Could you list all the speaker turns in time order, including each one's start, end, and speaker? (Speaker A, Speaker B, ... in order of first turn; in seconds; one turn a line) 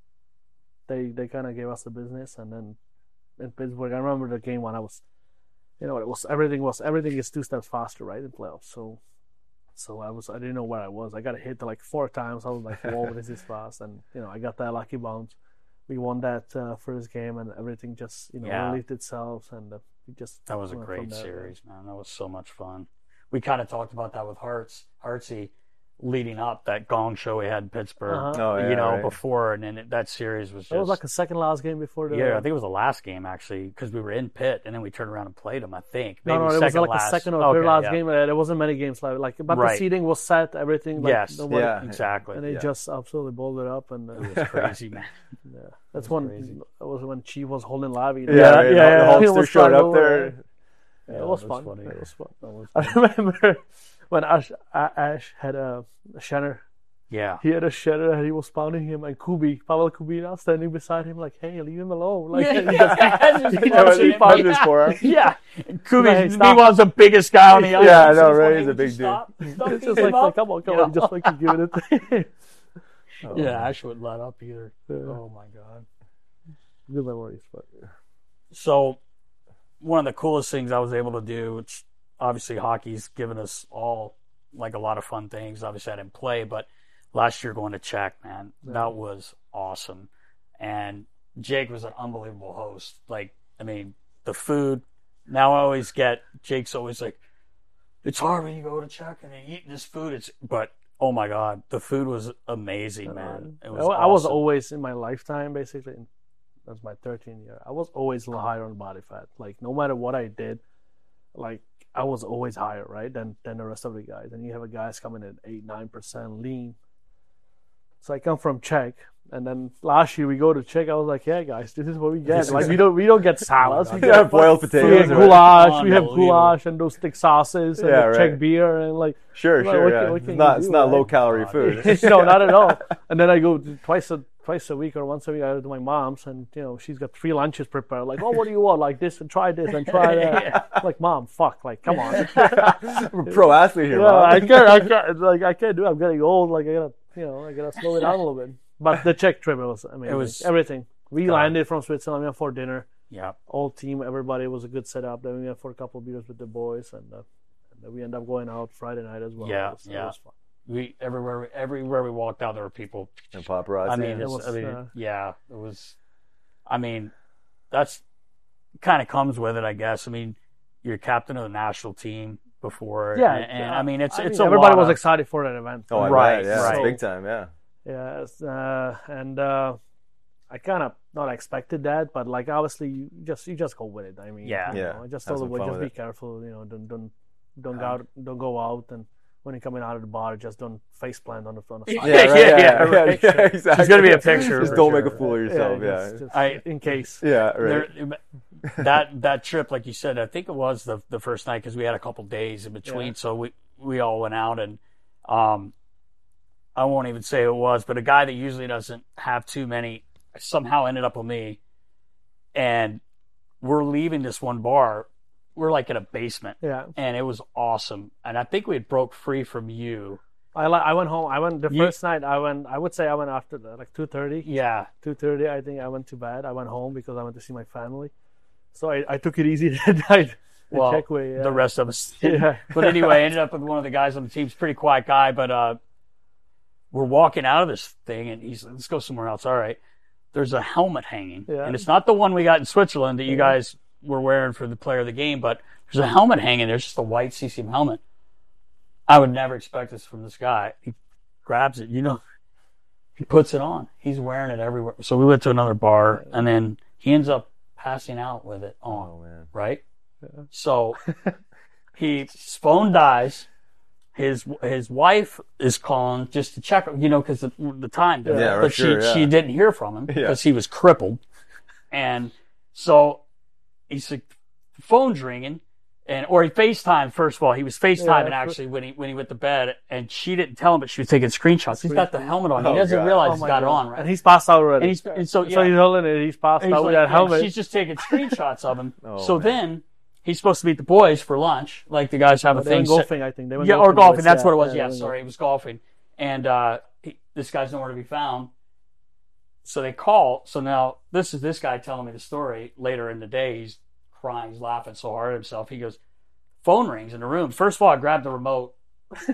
Speaker A: 0.9-2.8
Speaker A: 3.4-5.0
Speaker A: 5.8-9.0
Speaker A: 9.8-15.4
Speaker A: 15.9-21.5
Speaker B: 18.4-18.8
Speaker B: 20.5-31.0
Speaker A: 28.1-28.4
Speaker C: 28.3-29.1
Speaker A: 30.7-32.5
Speaker B: 32.1-38.0
Speaker A: 36.3-41.8
Speaker B: 39.5-39.9
Speaker B: 41.0-42.4
Speaker C: 41.5-42.7
Speaker A: 42.3-44.3
Speaker B: 44.1-45.1
Speaker C: 44.3-44.7
Speaker A: 45.5-50.3
Speaker B: 46.0-46.5
Speaker C: 48.3-50.4
Speaker B: 48.3-49.4
Speaker A: 51.1-56.6
Speaker B: 51.1-53.0
Speaker B: 57.1-57.4
Speaker A: 57.4-65.1
Speaker B: 62.3-71.6
Speaker C: 62.6-65.0
Speaker A: 66.0-66.7
Speaker A: 67.6-68.2
Speaker C: 67.6-69.3
Speaker A: 69.7-72.3
Speaker C: 73.2-73.7
Speaker B: 73.3-75.9
Speaker A: 74.9-75.2
Speaker A: 76.9-77.7
Speaker B: 78.5-79.0
Speaker B: 79.8-97.2
Speaker A: 88.6-88.9
Speaker B: 98.0-104.4
Speaker A: 103.1-106.1
Speaker A: 106.7-110.6
Speaker A: 111.3-116.8
Speaker A: 118.0-152.9
Speaker C: 122.3-122.8
Speaker B: 122.3-122.9
Speaker B: 123.6-126.6
Speaker C: 124.0-125.5
Speaker C: 127.8-128.4
Speaker C: 129.3-132.9
Speaker B: 131.3-132.0
Speaker B: 139.9-140.7
Speaker C: 140.3-140.8
Speaker B: 142.1-142.6
Speaker C: 142.2-144.9
Speaker B: 150.1-150.5
Speaker B: 151.2-151.6
Speaker B: 153.1-153.4
Speaker A: 153.5-157.2
Speaker A: 157.7-160.3
Speaker B: 159.4-160.1
Speaker B: 160.7-163.3
Speaker C: 163.3-164.3
Speaker B: 163.9-165.9
Speaker A: 164.2-164.9
Speaker B: 166.7-167.1
Speaker B: 167.7-168.0
Speaker B: 168.8-175.0
Speaker A: 173.1-177.0
Speaker C: 175.9-177.5
Speaker B: 176.0-176.9
Speaker A: 177.9-179.8
Speaker A: 180.5-197.2
Speaker B: 184.4-184.8
Speaker C: 184.7-185.9
Speaker B: 191.9-195.2
Speaker C: 192.0-196.3
Speaker B: 196.3-196.6
Speaker C: 197.2-197.9
Speaker B: 197.6-198.2
Speaker B: 198.7-205.7
Speaker A: 202.8-203.1
Speaker B: 206.8-211.6
Speaker B: 212.6-213.0
Speaker B: 213.6-220.2
Speaker A: 216.6-216.9
Speaker A: 220.6-224.5
Speaker B: 224.4-224.9
Speaker A: 225.0-228.1
Speaker A: 228.7-231.6
Speaker B: 230.7-235.8
Speaker A: 232.2-232.9
Speaker B: 236.9-239.8
Speaker B: 240.3-248.0
Speaker A: 241.5-241.8
Speaker A: 243.3-243.6
Speaker B: 249.1-252.2
Speaker B: 253.2-259.8
Speaker C: 258.9-259.5
Speaker B: 260.5-261.1
Speaker B: 261.9-263.5
Speaker B: 264.1-271.2
Speaker A: 268.2-268.6
Speaker C: 268.3-269.3
Speaker C: 270.1-270.4
Speaker B: 271.9-273.2
Speaker B: 273.9-284.1
Speaker A: 278.0-278.6
Speaker A: 281.7-282.1
Speaker C: 282.6-283.6
Speaker A: 283.2-287.5
Speaker B: 284.8-285.8
Speaker B: 286.6-298.5
Speaker C: 289.0-289.6
Speaker A: 292.5-295.1
Speaker B: 299.6-306.0
Speaker B: 306.6-308.7